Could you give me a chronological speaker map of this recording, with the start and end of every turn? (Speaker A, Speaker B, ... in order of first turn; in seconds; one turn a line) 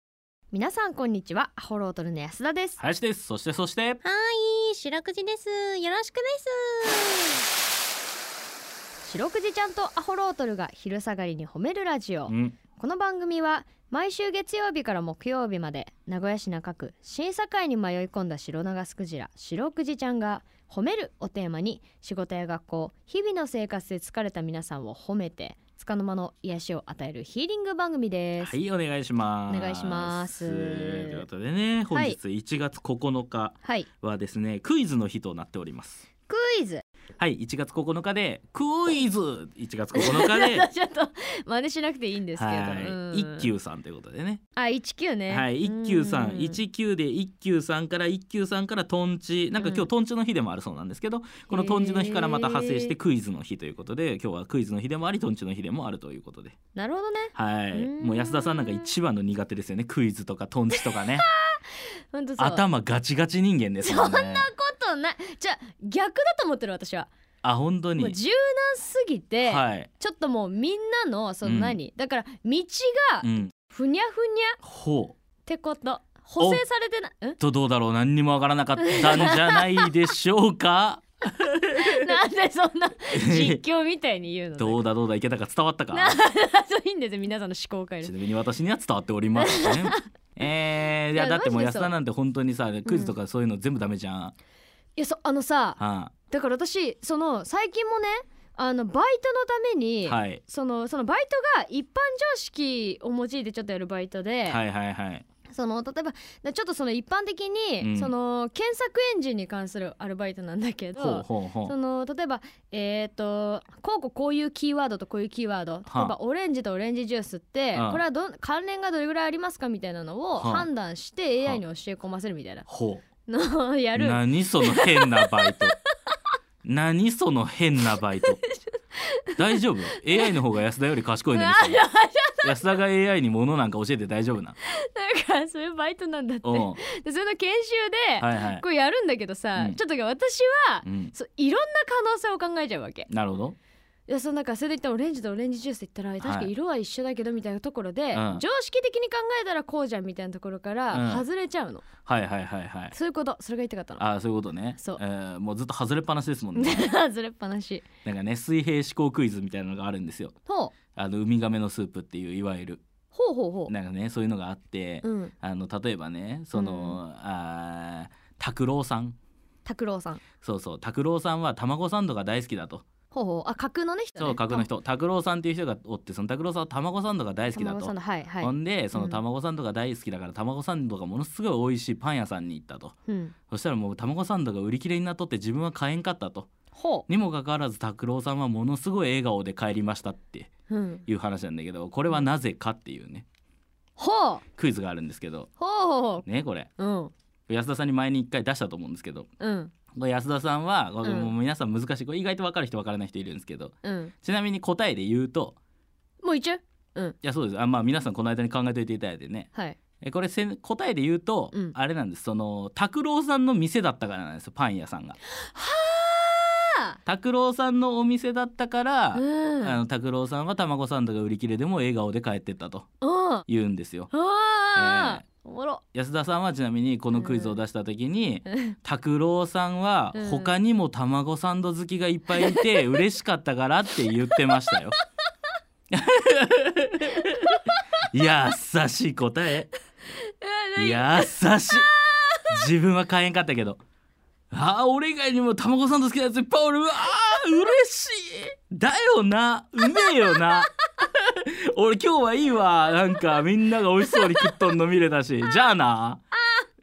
Speaker A: 0.5-2.8
Speaker B: 2.8-4.0
Speaker C: 4.0-7.4
Speaker A: 9.0-28.6
Speaker B: 12.3-12.6
Speaker B: 28.4-36.0
Speaker A: 29.5-31.3
Speaker A: 31.9-32.2
Speaker A: 36.3-36.8
Speaker B: 37.2-40.7
Speaker A: 39.9-43.5
Speaker B: 42.4-44.4
Speaker A: 44.6-46.6
Speaker B: 45.3-56.5
Speaker A: 49.6-49.9
Speaker A: 51.5-53.0
Speaker A: 56.8-58.9
Speaker B: 57.4-61.3
Speaker A: 60.7-62.7
Speaker B: 62.4-64.5
Speaker A: 63.8-67.1
Speaker B: 67.4-68.2
Speaker A: 68.0-74.6
Speaker B: 69.4-69.9
Speaker B: 71.4-71.8
Speaker B: 73.2-73.5
Speaker B: 74.6-75.2
Speaker A: 75.5-77.4
Speaker B: 77.4-82.1
Speaker A: 78.8-79.9
Speaker A: 81.8-84.9
Speaker B: 83.1-83.6
Speaker B: 84.6-86.2
Speaker A: 85.9-88.1
Speaker B: 88.0-94.3
Speaker A: 89.4-90.0
Speaker A: 91.1-92.0
Speaker A: 92.8-93.2
Speaker A: 95.0-104.6
Speaker B: 95.8-96.1
Speaker B: 100.1-100.4
Speaker B: 104.5-105.2
Speaker A: 105.5-122.7
Speaker B: 107.8-108.1
Speaker B: 111.0-111.8
Speaker B: 115.9-116.2
Speaker B: 117.7-118.0
Speaker B: 120.4-120.7
Speaker B: 122.7-123.0
Speaker A: 123.3-125.7
Speaker B: 124.0-125.7
Speaker B: 126.6-128.4
Speaker A: 128.3-130.3
Speaker B: 129.4-131.8
Speaker A: 131.3-132.8
Speaker B: 132.4-134.6
Speaker A: 134.7-143.1
Speaker B: 136.4-136.8
Speaker B: 138.2-138.6
Speaker B: 140.8-141.1
Speaker B: 143.1-143.6
Speaker A: 144.1-151.8
Speaker B: 146.2-146.5
Speaker B: 148.1-148.4
Speaker B: 150.9-151.2
Speaker B: 152.1-152.9
Speaker A: 152.9-154.1
Speaker B: 154.0-156.9
Speaker A: 156.5-157.8
Speaker B: 158.1-160.3
Speaker A: 160.5-160.7
Speaker B: 161.0-162.8
Speaker A: 163.1-163.7
Speaker B: 163.7-169.2
Speaker A: 165.0-165.3
Speaker A: 166.5-167.0
Speaker A: 169.7-170.2
Speaker B: 170.4-172.8
Speaker A: 173.1-174.7
Speaker B: 174.2-183.0
Speaker A: 177.5-179.2
Speaker A: 183.1-183.3
Speaker B: 183.5-186.5
Speaker A: 186.7-187.1
Speaker B: 187.1-190.5
Speaker A: 190.7-191.0
Speaker B: 191.1-193.2
Speaker A: 194.0-194.4
Speaker B: 194.6-195.5
Speaker A: 195.6-196.2
Speaker B: 196.3-196.7
Speaker A: 196.8-197.1
Speaker B: 197.5-199.3
Speaker A: 199.4-199.7
Speaker B: 199.9-205.6
Speaker A: 201.0-201.3
Speaker A: 203.8-204.1
Speaker A: 206.2-207.2
Speaker B: 207.2-209.5
Speaker B: 210.0-215.2
Speaker A: 215.4-217.0
Speaker B: 217.1-222.9
Speaker A: 219.2-219.8
Speaker A: 223.0-223.4
Speaker B: 223.5-224.1
Speaker A: 224.1-225.8
Speaker B: 224.7-225.2
Speaker B: 225.9-234.9
Speaker A: 227.1-227.6
Speaker A: 228.5-228.8
Speaker A: 230.1-230.6
Speaker A: 232.3-233.0
Speaker A: 234.3-234.6
Speaker B: 235.9-237.5
Speaker B: 238.1-239.7
Speaker A: 240.2-242.5
Speaker B: 240.8-241.9
Speaker B: 242.5-243.8
Speaker B: 244.5-256.2
Speaker A: 250.1-250.6
Speaker A: 254.1-254.5
Speaker A: 256.3-256.7